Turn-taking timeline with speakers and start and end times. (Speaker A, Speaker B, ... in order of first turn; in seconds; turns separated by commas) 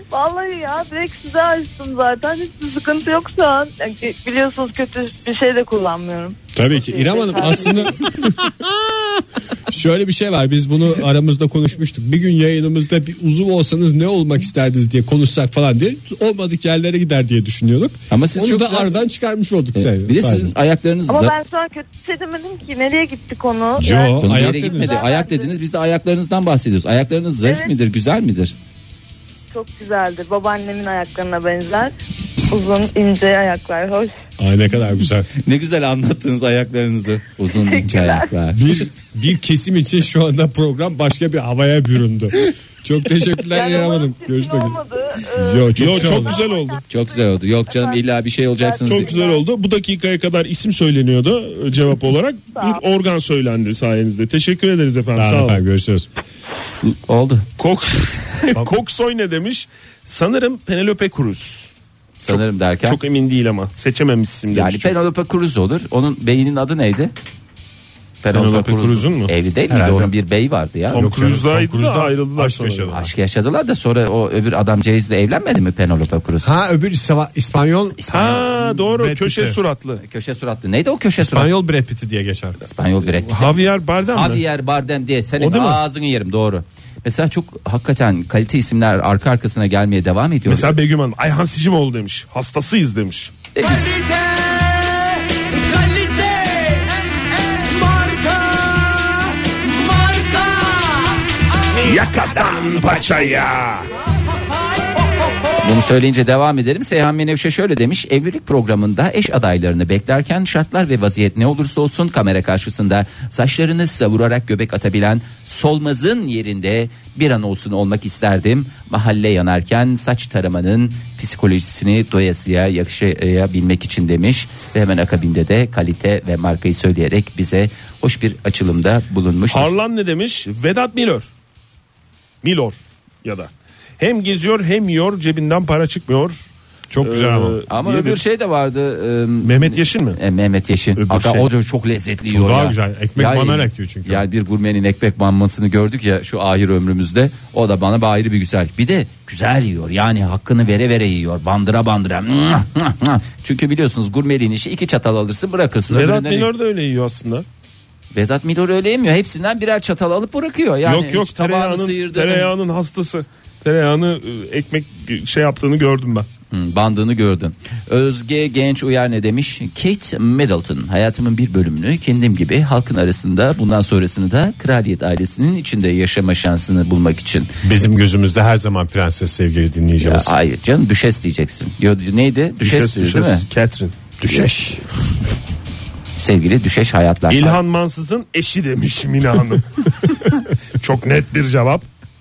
Speaker A: 0.1-8.0, Speaker B: 6.5-20.5, Speaker C: 18.1-19.0, Speaker C: 19.8-21.4, Speaker A: 21.1-25.6, Speaker B: 23.8-25.0, Speaker C: 24.2-28.5, Speaker A: 27.4-27.7, Speaker A: 29.5-31.9, Speaker A: 32.5-34.1, Speaker B: 34.4-35.3, Speaker C: 35.4-38.9, Speaker A: 37.5-38.3, Speaker B: 38.5-44.8, Speaker A: 43.4-48.0, Speaker B: 45.3-46.4, Speaker D: 45.8-46.8, Speaker C: 46.9-49.2, Speaker A: 48.6-49.5, Speaker D: 48.9-55.6, Speaker A: 52.5-52.8, Speaker B: 55.1-56.1, Speaker C: 56.9-57.5, Speaker D: 57.6-61.7, Speaker C: 62.2-63.0, Speaker D: 62.3-65.0, Speaker C: 64.5-67.1, Speaker C: 68.2-71.1, Speaker D: 68.3-69.3, Speaker B: 69.7-70.1, Speaker D: 70.9-72.9, Speaker B: 70.9-73.1, Speaker C: 72.9-76.5, Speaker B: 76.4-79.6, Speaker C: 78.0-78.5, Speaker D: 78.1-80.0, Speaker C: 80.0-81.5, Speaker B: 81.2-82.6, Speaker C: 82.7-90.7, Speaker D: 83.2-84.4, Speaker D: 85.4-85.8, Speaker D: 90.5-93.3, Speaker C: 93.5-93.9, Speaker B: 93.8-94.9, Speaker B: 95.9-96.4, Speaker B: 97.7-99.2, Speaker C: 101.8-103.9, Speaker C: 105.6-129.8, Speaker D: 129.5-131.3, Speaker D: 132.4-136.5, Speaker B: 136.9-137.6, Speaker D: 137.0-138.2, Speaker C: 137.7-156.5, Speaker D: 139.4-140.2, Speaker D: 140.9-141.5, Speaker B: 142.3-144.2, Speaker D: 155.9-157.4, Speaker C: 158.1-162.5, Speaker D: 160.8-166.3, Speaker C: 166.5-177.5, Speaker B: 177.6-180.3, Speaker C: 180.0-183.4, Speaker D: 182.6-183.9, Speaker B: 184.2-184.8, Speaker C: 184.2-184.5, Speaker C: 186.2-187.6, Speaker D: 187.3-189.6, Speaker D: 190.8-191.9